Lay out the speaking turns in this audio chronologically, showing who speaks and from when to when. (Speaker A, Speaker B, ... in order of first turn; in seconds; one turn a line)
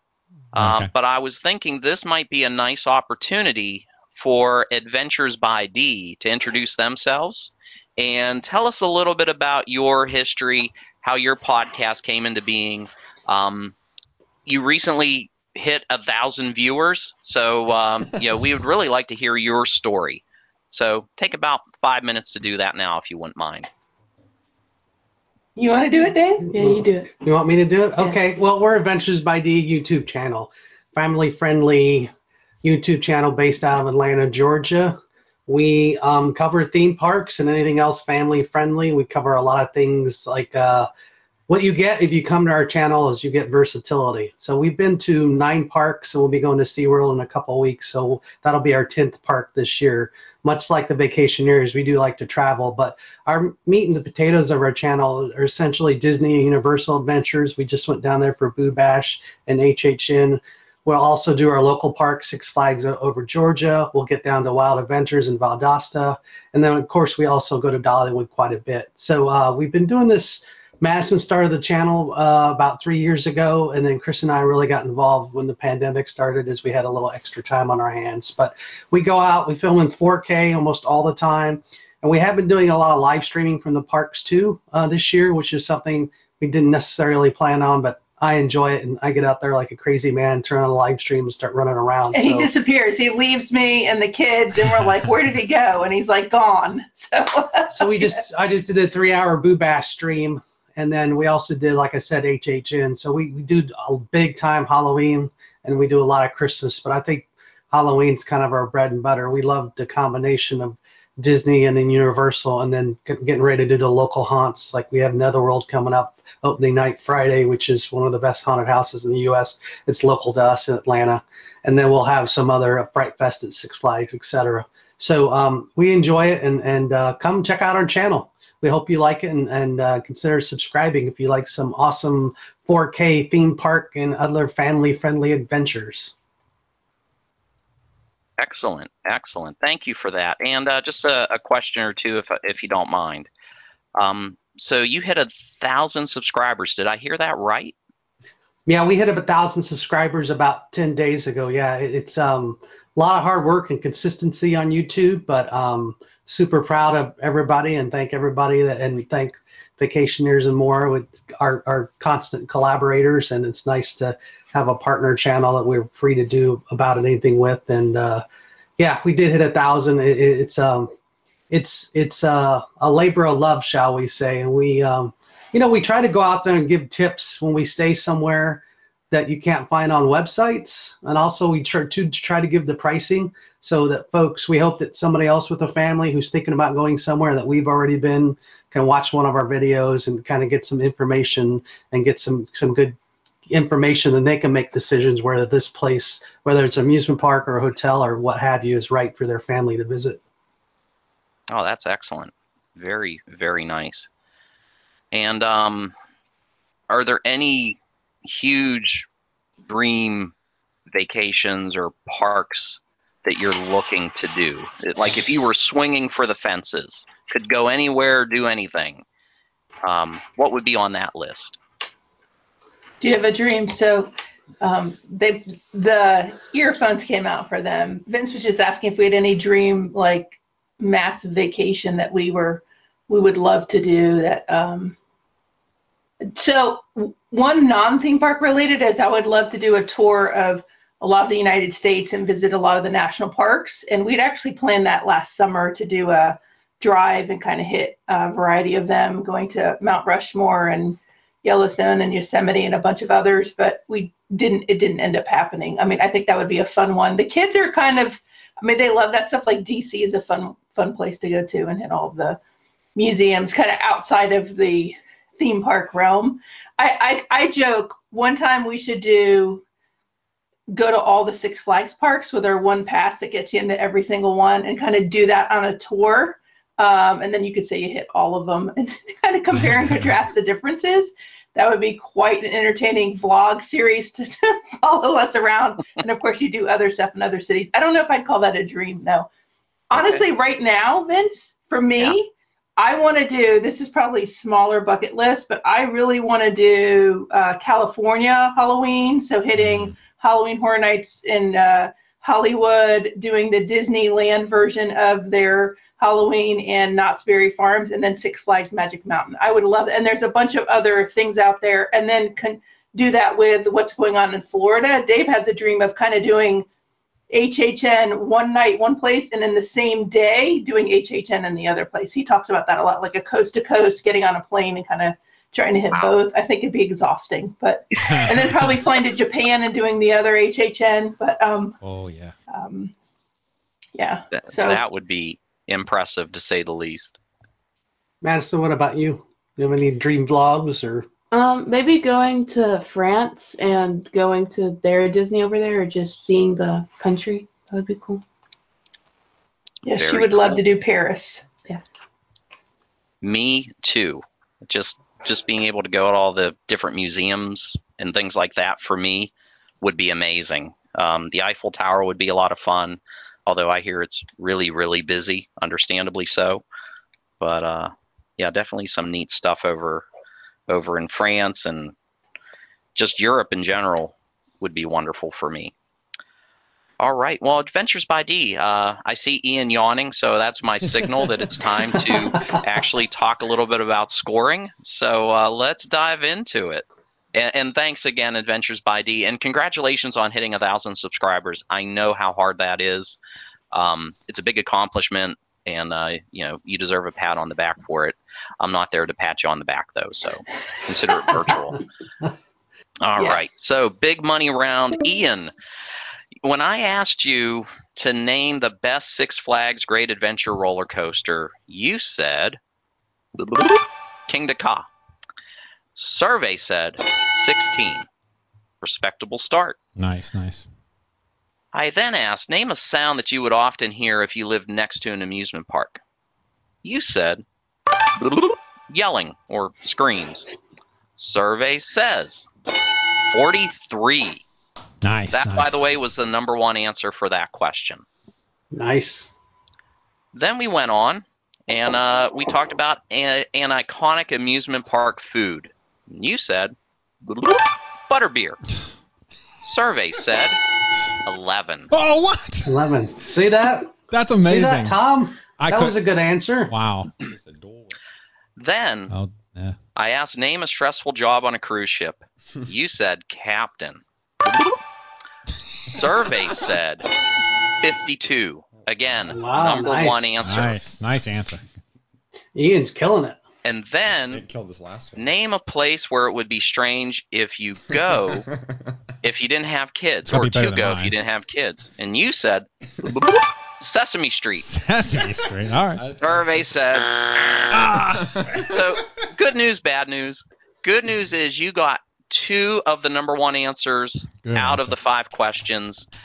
Speaker A: 0.5-13.7
Speaker B: 0.5-0.9
Speaker A: 14.4-23.7
Speaker C: 25.6-26.5
Speaker D: 26.5-27.1
Speaker E: 26.5-32.1
Speaker E: 32.6-40.9
Speaker E: 41.5-92.5
Speaker C: 92.1-98.2
Speaker E: 97.7-136.1
Speaker A: 138.4-143.3
Speaker A: 143.9-147.7
Speaker E: 148.7-168.2
Speaker E: 168.8-170.9
Speaker E: 171.5-192.9
Speaker E: 193.5-200.2
Speaker A: 201.5-204.1
Speaker A: 205.1-205.9
Speaker A: 206.9-209.1
Speaker A: 209.7-210.3
Speaker A: 210.9-219.0
Speaker A: 219.8-221.6
Speaker C: 223.0-234.9
Speaker C: 236.2-262.4
Speaker C: 262.9-269.6
Speaker C: 270.7-289.3
Speaker C: 289.9-316.7
Speaker B: 299.6-299.9
Speaker C: 317.3-331.8
Speaker B: 328.1-328.3
Speaker B: 331.8-332.3
Speaker C: 332.5-332.9
Speaker C: 333.9-334.8
Speaker A: 334.3-337.2
Speaker E: 338.2-341.1
Speaker D: 341.3-348.2
Speaker C: 349.8-351.4
Speaker A: 349.9-350.6
Speaker A: 353.2-366.6
Speaker A: 367.4-370.0
Speaker A: 370.7-371.9
Speaker A: 372.9-375.7
Speaker A: 377.0-393.2
Speaker A: 393.7-401.8
Speaker A: 403.0-405.5
Speaker A: 406.4-412.6
Speaker A: 413.4-414.8
Speaker A: 415.9-418.1
Speaker A: 418.8-419.8
Speaker B: 420.0-420.6
Speaker A: 421.7-426.0
Speaker A: 426.8-427.4
Speaker A: 428.2-430.5
Speaker A: 431.2-432.5
Speaker A: 433.2-434.4
Speaker B: 435.0-435.7
Speaker A: 435.3-438.0
Speaker E: 438.7-439.3
Speaker A: 440.3-446.7
Speaker A: 447.2-448.6
Speaker A: 449.6-450.6
Speaker A: 451.2-451.9
Speaker B: 451.9-452.7
Speaker E: 452.6-456.7
Speaker B: 454.1-454.9
Speaker B: 455.6-456.0
Speaker B: 456.7-457.1
Speaker F: 457.2-457.9
Speaker A: 458.6-459.1
Speaker B: 459.1-459.8
Speaker A: 459.9-464.0
Speaker A: 465.8-467.1
Speaker A: 467.8-470.9
Speaker E: 469.3-470.3
Speaker B: 470.4-471.6
Speaker E: 472.5-473.4
Speaker A: 473.6-474.4
Speaker F: 474.3-475.3
Speaker A: 475.1-478.5
Speaker F: 478.3-478.9
Speaker A: 479.2-484.7
Speaker B: 480.3-481.1
Speaker B: 484.6-486.0
Speaker F: 485.9-486.7
Speaker A: 486.2-487.7
Speaker B: 487.7-488.4
Speaker F: 488.2-488.8
Speaker A: 488.6-496.1
Speaker B: 494.4-494.9